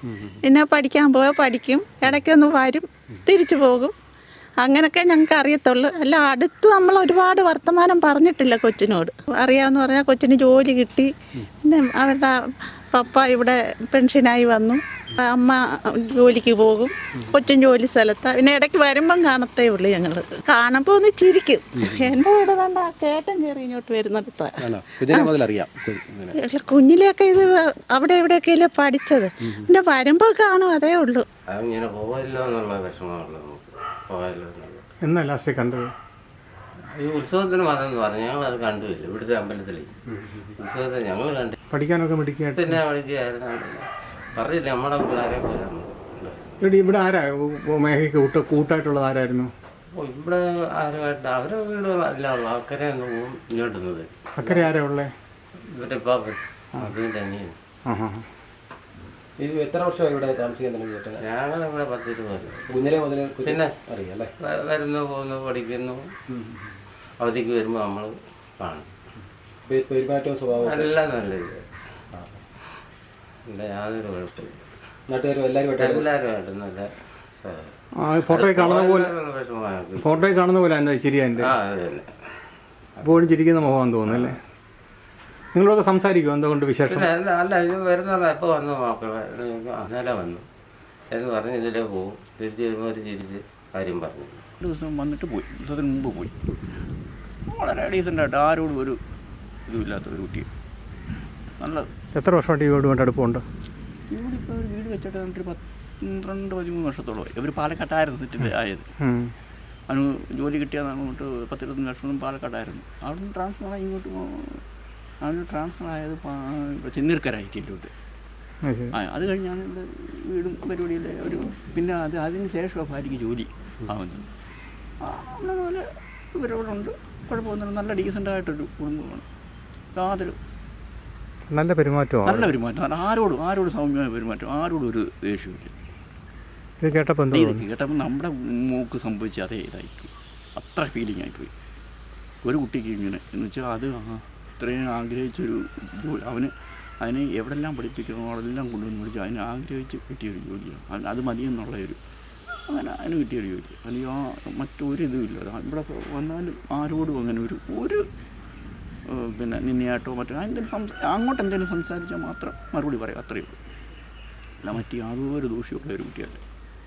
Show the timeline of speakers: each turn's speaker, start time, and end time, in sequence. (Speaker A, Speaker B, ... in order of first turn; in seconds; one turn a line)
Speaker A: 0.4-3.9
Speaker A: 4.6-11.1
Speaker A: 11.6-12.3
Speaker A: 12.9-24.6
Speaker B: 21.8-22.1
Speaker B: 24.6-26.4
Speaker A: 26.4-31.2
Speaker C: 31.5-34.8
Speaker D: 35.0-35.9
Speaker C: 36.9-39.9
Speaker C: 40.5-41.5
Speaker D: 41.7-42.8
Speaker C: 42.6-46.4
Speaker D: 46.6-49.5
Speaker C: 49.9-54.1
Speaker D: 54.4-55.1
Speaker C: 55.8-57.5
Speaker D: 57.9-58.2
Speaker B: 59.4-61.2
Speaker C: 61.2-62.7
Speaker B: 62.7-64.3
Speaker C: 63.4-63.7
Speaker C: 64.4-66.0
Speaker C: 67.2-68.9
Speaker B: 69.7-70.9
Speaker C: 70.6-72.4
Speaker C: 73.5-74.6
Speaker B: 75.1-76.1
Speaker C: 75.8-77.7
Speaker D: 78.0-79.1
Speaker C: 78.3-80.1
Speaker D: 80.0-81.5
Speaker C: 81.4-82.1
Speaker C: 83.0-83.3
Speaker D: 83.0-84.4
Speaker C: 84.1-84.4
Speaker D: 85.5-87.1
Speaker C: 86.9-90.4
Speaker C: 91.1-94.4
Speaker E: 94.6-96.3
Speaker E: 97.5-99.0
Speaker E: 99.7-100.5
Speaker E: 101.6-101.9
Speaker D: 102.1-103.4
Speaker E: 104.1-108.9
Speaker D: 109.0-109.3
Speaker E: 109.9-114.6
Speaker E: 115.2-117.9
Speaker D: 118.6-118.9
Speaker E: 118.9-124.2
Speaker E: 125.0-125.8
Speaker E: 126.4-129.2
Speaker E: 129.9-130.4
Speaker D: 131.5-132.5
Speaker E: 132.2-135.7
Speaker D: 136.8-137.6
Speaker E: 137.3-141.5
Speaker E: 142.4-146.5
Speaker E: 147.0-152.0
Speaker E: 152.7-158.0
Speaker E: 159.1-163.6
Speaker E: 164.6-166.4